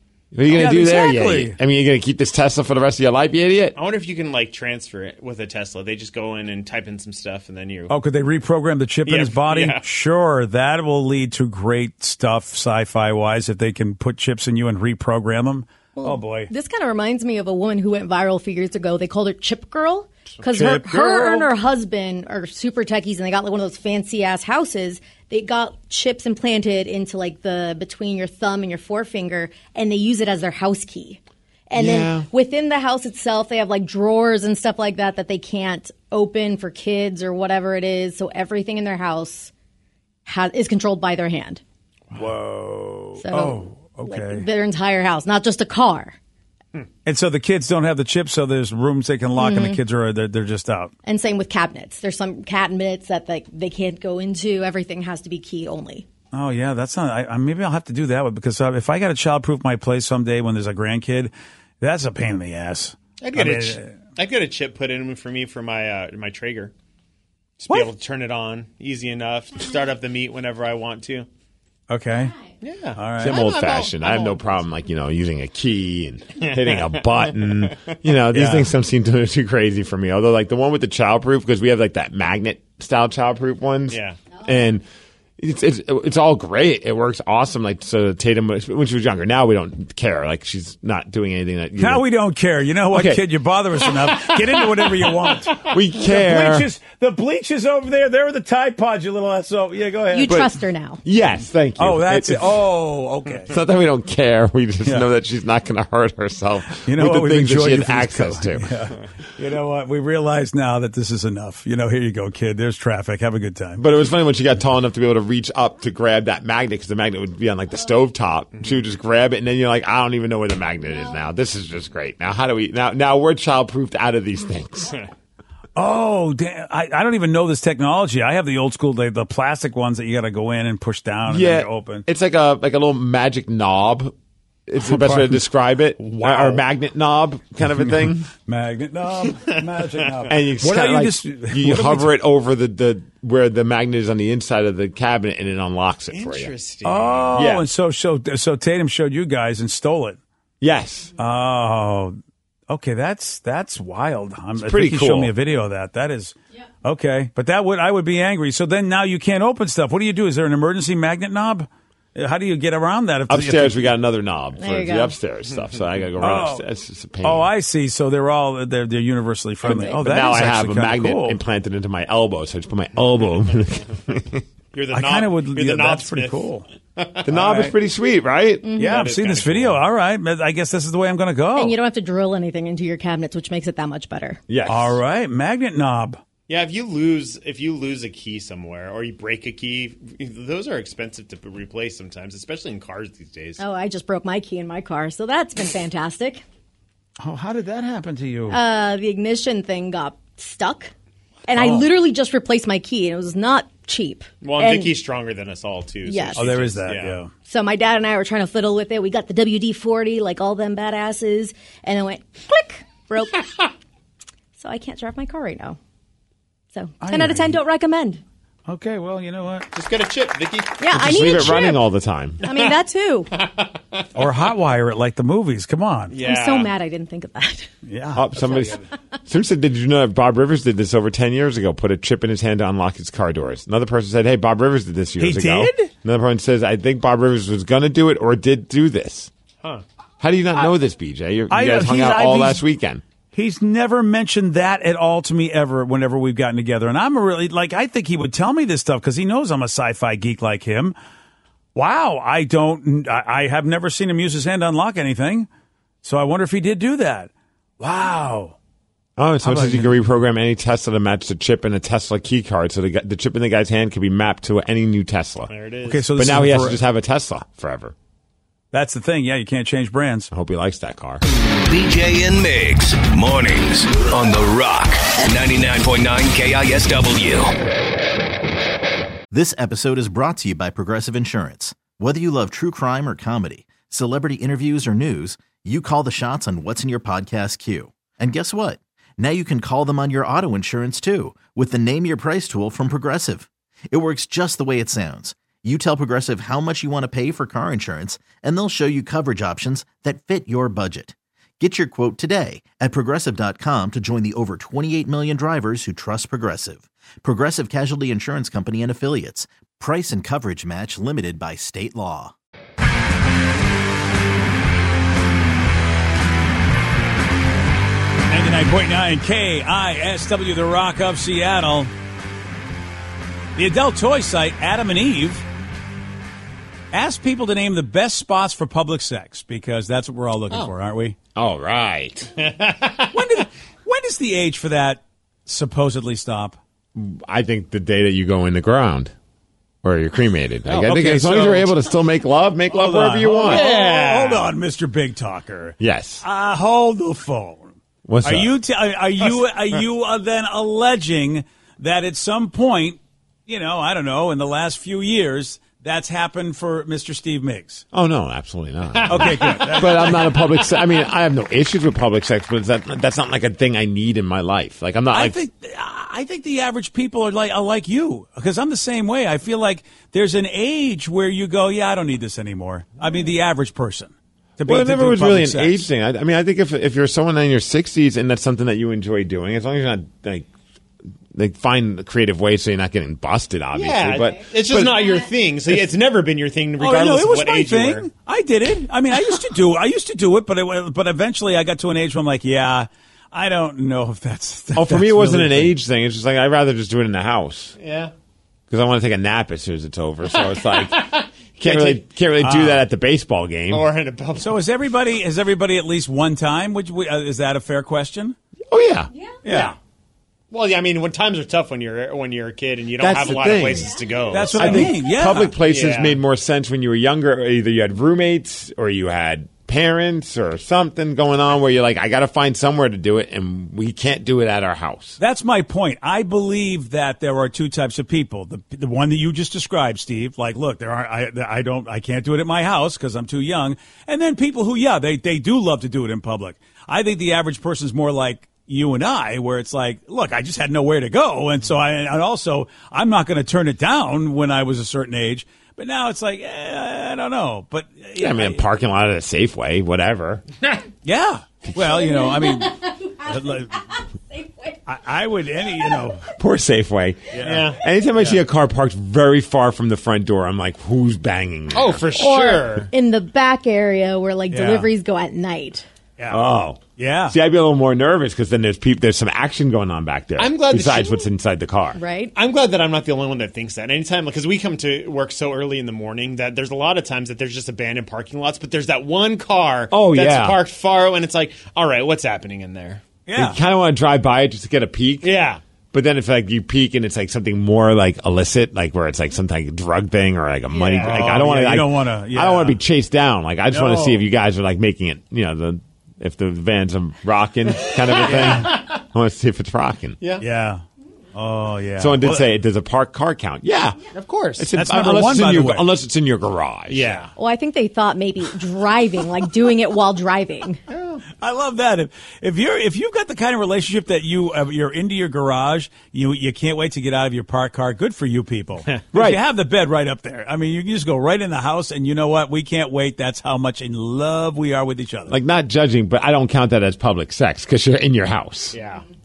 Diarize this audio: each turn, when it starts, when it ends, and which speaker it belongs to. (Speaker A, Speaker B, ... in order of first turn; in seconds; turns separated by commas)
Speaker A: 0.3-3.8, Speaker B: 0.5-1.6, Speaker C: 3.8-7.9, Speaker B: 7.9-16.5, Speaker C: 9.1-9.8, Speaker D: 15.9-39.5, Speaker B: 20.5-21.5, Speaker A: 31.7-32.3, Speaker D: 40.2-41.6, Speaker B: 42.1-44.5, Speaker D: 43.2-46.2, Speaker B: 47.0-50.9, Speaker D: 49.4-49.8, Speaker D: 51.0-56.1, Speaker B: 56.3-63.9, Speaker C: 63.2-66.7, Speaker C: 67.6-71.3, Speaker B: 71.9-72.3, Speaker C: 72.6-74.5, Speaker B: 73.0-73.5, Speaker A: 73.2-84.8, Speaker C: 76.4-77.9, Speaker B: 78.3-78.7, Speaker C: 83.9-84.2, Speaker A: 85.4-92.0, Speaker B: 91.8-100.4, Speaker A: 92.9-93.2, Speaker A: 95.6-96.7, Speaker D: 100.1-101.0, Speaker A: 101.0-102.5, Speaker B: 101.8-103.5, Speaker A: 103.5-108.7, Speaker B: 106.8-113.8, Speaker A: 113.8-125.0, Speaker B: 125.8-132.1, Speaker A: 131.3-134.1, Speaker A: 134.7-138.3, Speaker B: 134.8-135.4, Speaker B: 136.0-136.6, Speaker B: 137.7-142.1, Speaker A: 140.3-146.5, Speaker C: 146.1-147.5, Speaker B: 146.8-150.2, Speaker A: 147.3-147.7, Speaker A: 150.6-151.1, Speaker B: 151.2-152.2, Speaker B: 152.7-163.9, Speaker A: 154.6-155.3, Speaker A: 163.3-167.5, Speaker D: 164.6-165.2, Speaker B: 166.2-166.6, Speaker B: 167.2-171.4, Speaker A: 169.6-174.4, Speaker C: 174.7-177.3, Speaker B: 174.9-176.7, Speaker A: 177.2-178.7, Speaker B: 177.3-177.7, Speaker D: 178.6-179.0, Speaker B: 178.8-181.8, Speaker C: 178.8-179.8, Speaker D: 181.6-184.4, Speaker A: 184.5-185.0, Speaker B: 184.7-186.2, Speaker C: 186.5-193.6, Speaker D: 193.6-196.4, Speaker B: 197.2-198.6, Speaker D: 198.5-200.9, Speaker D: 201.5-204.9, Speaker B: 201.6-201.9, Speaker C: 204.4-207.2, Speaker D: 206.1-206.4, Speaker B: 206.3-207.3, Speaker D: 207.4-213.5, Speaker D: 214.6-215.8, Speaker D: 216.7-218.2, Speaker B: 217.0-217.6, Speaker B: 218.7-219.7, Speaker C: 219.7-220.8, Speaker D: 220.8-221.9, Speaker A: 220.9-222.4, Speaker D: 222.4-223.3, Speaker C: 222.4-222.7, Speaker C: 223.3-224.1, Speaker B: 224.1-226.1, Speaker C: 226.1-226.7, Speaker D: 226.2-227.7, Speaker B: 227.8-228.7, Speaker A: 228.1-239.3, Speaker B: 235.2-235.9, Speaker A: 240.2-243.0, Speaker B: 241.5-242.6, Speaker B: 243.3-250.9, Speaker B: 251.7-255.5, Speaker B: 256.0-258.5, Speaker A: 259.2-265.5, Speaker B: 259.4-260.0, Speaker C: 265.5-266.1, Speaker B: 265.8-266.8, Speaker A: 266.1-267.9, Speaker B: 268.7-270.3, Speaker A: 270.3-271.2, Speaker E: 271.6-277.5, Speaker F: 279.3-312.3, Speaker B: 318.3-321.9, Speaker B: 323.6-325.4, Speaker B: 326.9-331.1, Speaker A: 331.4-332.3, Speaker C: 332.4-333.2, Speaker B: 333.1-336.6, Speaker A: 336.9-339.1, Speaker A: 339.8-343.7, Speaker C: 340.7-341.6, Speaker B: 340.9-341.6, Speaker B: 342.7-357.8, Speaker C: 343.4-344.5, Speaker A: 345.8-346.2, Speaker A: 348.1-348.5, Speaker A: 357.9-365.4, Speaker C: 358.9-360.4, Speaker B: 359.1-360.5, Speaker B: 365.1-375.9, Speaker A: 374.6-380.5, Speaker A: 381.3-385.2, Speaker C: 383.7-388.1, Speaker B: 386.8-395.7, Speaker A: 394.8-397.8, Speaker C: 397.8-398.1, Speaker A: 398.7-403.9, Speaker C: 400.3-402.0, Speaker B: 402.4-402.8, Speaker C: 403.7-404.6, Speaker B: 404.4-408.4, Speaker A: 408.7-409.1, Speaker B: 409.4-409.8, Speaker C: 409.5-409.7, Speaker C: 410.5-414.8, Speaker A: 413.0-425.2, Speaker B: 414.3-415.5, Speaker C: 415.6-416.2, Speaker B: 425.2-448.6, Speaker A: 448.1-450.4, Speaker B: 451.0-453.8, Speaker D: 451.8-453.5, Speaker D: 454.3-454.8, Speaker B: 454.9-456.3, Speaker A: 456.3-462.1, Speaker B: 457.3-457.7, Speaker C: 457.4-458.4, Speaker C: 461.7-462.9, Speaker D: 462.1-465.9, Speaker B: 464.5-464.9, Speaker A: 466.3-472.0, Speaker B: 466.9-467.4, Speaker C: 470.4-471.3, Speaker D: 471.9-472.3, Speaker C: 472.3-483.0, Speaker A: 479.9-480.6, Speaker B: 483.2-483.6, Speaker A: 483.3-485.3, Speaker C: 485.2-485.6, Speaker A: 485.9-500.2, Speaker C: 490.7-491.5, Speaker B: 491.0-492.8, Speaker B: 493.7-494.2, Speaker C: 497.8-499.0, Speaker B: 498.2-498.7, Speaker C: 500.2-500.4, Speaker B: 500.4-500.8, Speaker B: 501.3-502.5, Speaker A: 502.0-507.2, Speaker C: 504.1-504.7, Speaker B: 504.7-505.9, Speaker C: 506.9-507.3, Speaker D: 507.4-510.8, Speaker C: 510.9-511.2, Speaker B: 511.4-525.3, Speaker A: 519.1-519.4, Speaker A: 525.3-528.8, Speaker C: 528.7-529.0